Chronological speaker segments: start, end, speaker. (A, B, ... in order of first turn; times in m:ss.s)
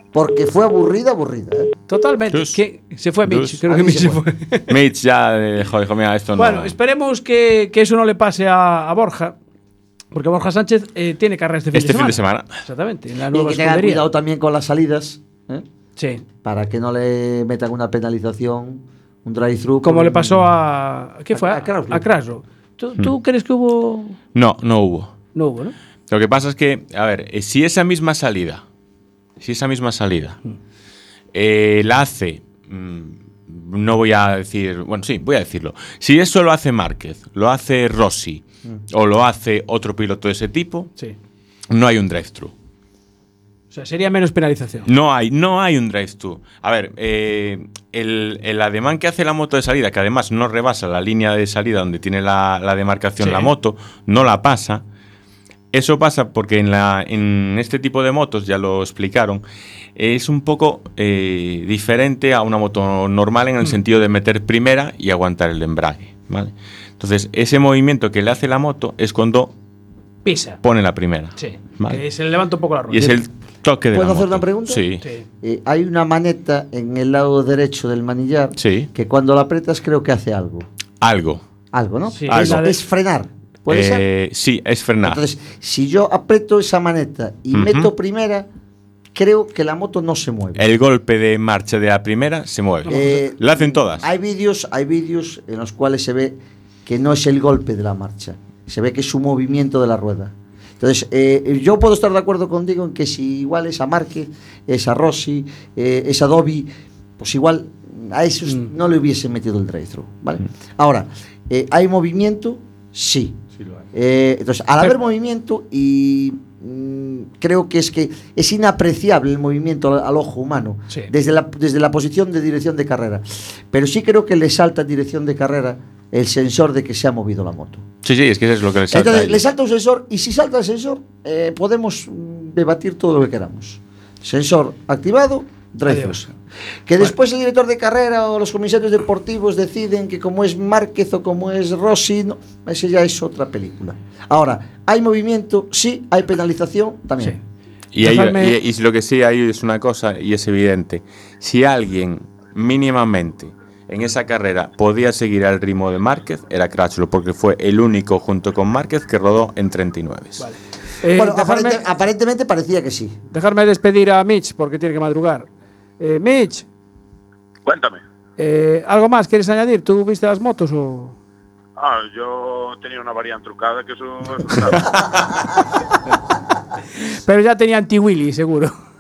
0:00.1-0:01.7 A
0:01.9-0:04.7 B
0:02.3-0:02.6 C
0:03.2-0:03.6 C
0:03.7-0:04.2 A
0:04.7-0:06.7 C
0:06.4-0:09.4 B
0:10.1-0:14.1 B
0:11.7-0:12.6 C
0:13.3-0:15.6 A
0:16.0-0:16.2 B
0:16.4-0:20.5 A
0:19.8-0:24.2 B
0:21.3-0:22.1 A
0:24.3-0:25.1 C
0:25.3-0:25.7 B
0:26.1-0:28.6 C
0:29.4-0:30.4 C
0:31.3-0:40.9 C
0:41.7-0:42.5 C
0:43.7-0:44.9 B
0:44.9-0:54.8 C
0:53.2-0:53.5 B
0:55.7-0:59.4 C
1:00.0-1:09.5 C
1:10.2-1:10.6 B
1:10.6-1:12.0 C
1:11.3-1:13.2 B
1:12.9-1:15.0 C
1:13.9-1:14.8 A
1:15.0-1:15.2 B
1:15.4-1:20.6 A
1:18.6-1:18.9 C
1:21.0-1:21.4 C
1:21.7-1:24.0 A
1:22.1-1:22.8 B
1:22.3-1:22.7 C
1:23.7-1:25.2 C
1:25.0-1:28.5 A
1:27.5-1:27.9 C
1:29.1-1:30.6 A
1:30.6-1:34.0 C
1:32.8-1:33.2 B
1:32.9-1:53.4 A
1:53.9-2:07.8 A
2:08.0-2:09.4 C
2:08.9-2:16.3 A
2:15.9-2:16.2 B
2:16.9-2:27.4 A
2:27.9-2:40.4 C
2:28.0-2:28.6 B
2:40.4-2:41.8 B
2:41.1-2:43.2 A
2:43.3-2:45.5 B
2:46.0-2:46.6 B
2:47.6-2:48.0 D
2:48.4-2:51.2 B
2:51.8-2:55.6 D
2:57.0-2:58.7 B